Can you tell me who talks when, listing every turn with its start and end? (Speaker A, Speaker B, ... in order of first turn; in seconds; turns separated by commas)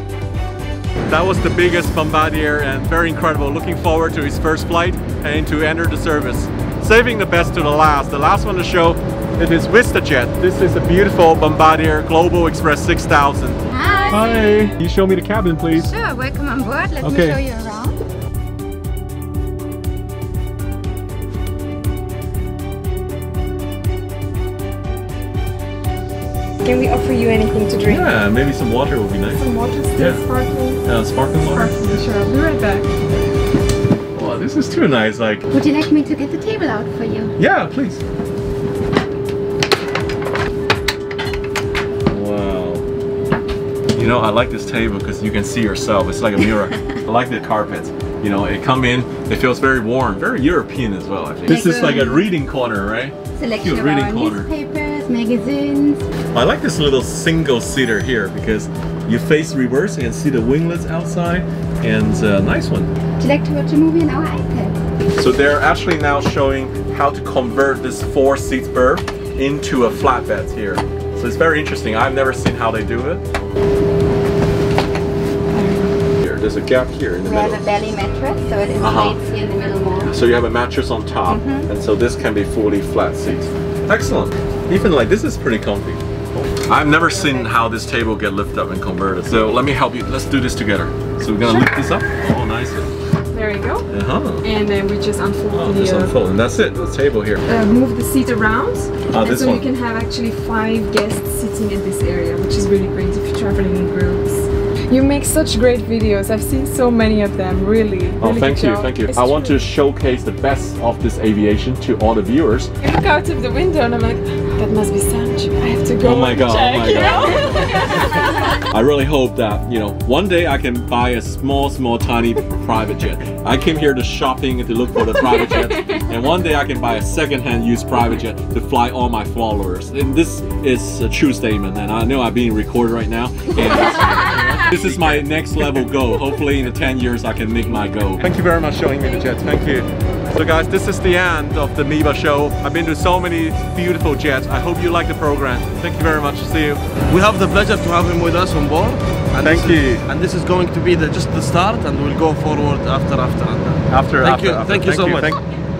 Speaker A: 1.1-15.9, Speaker B: 13.7-14.7, Speaker B: 15.7-18.0, Speaker A: 17.0-17.4, Speaker C: 26.6-28.1, Speaker A: 27.9-29.4, Speaker C: 29.3-30.8, Speaker A: 30.0-30.2, Speaker A: 30.8-31.9, Speaker C: 31.4-32.9, Speaker A: 34.1-35.5, Speaker B: 35.5-37.3, Speaker A: 37.4-38.0, Speaker A: 42.1-42.9, Speaker A: 44.0-54.5, Speaker B: 51.5-52.3, Speaker B: 53.4-56.0, Speaker A: 56.3-62.9, Speaker B: 63.2-64.8, Speaker A: 65.2-73.2, Speaker C: 75.5-76.0, Speaker A: 76.2-78.0, Speaker B: 77.2-80.1, Speaker A: 78.8-79.2, Speaker A: 80.0-92.9, Speaker B: 81.3-81.7, Speaker B: 87.2-87.5, Speaker C: 93.3-93.9, Speaker A: 93.9-94.5, Speaker C: 94.4-96.1, Speaker A: 95.5-97.4, Speaker C: 97.5-109.5, Speaker A: 99.1-99.7, Speaker A: 108.2-112.7, Speaker C: 112.8-118.4, Speaker A: 116.0-146.8, Speaker D: 134.3-135.2, Speaker D: 147.1-155.4, Speaker A: 149.4-150.1, Speaker A: 153.9-155.4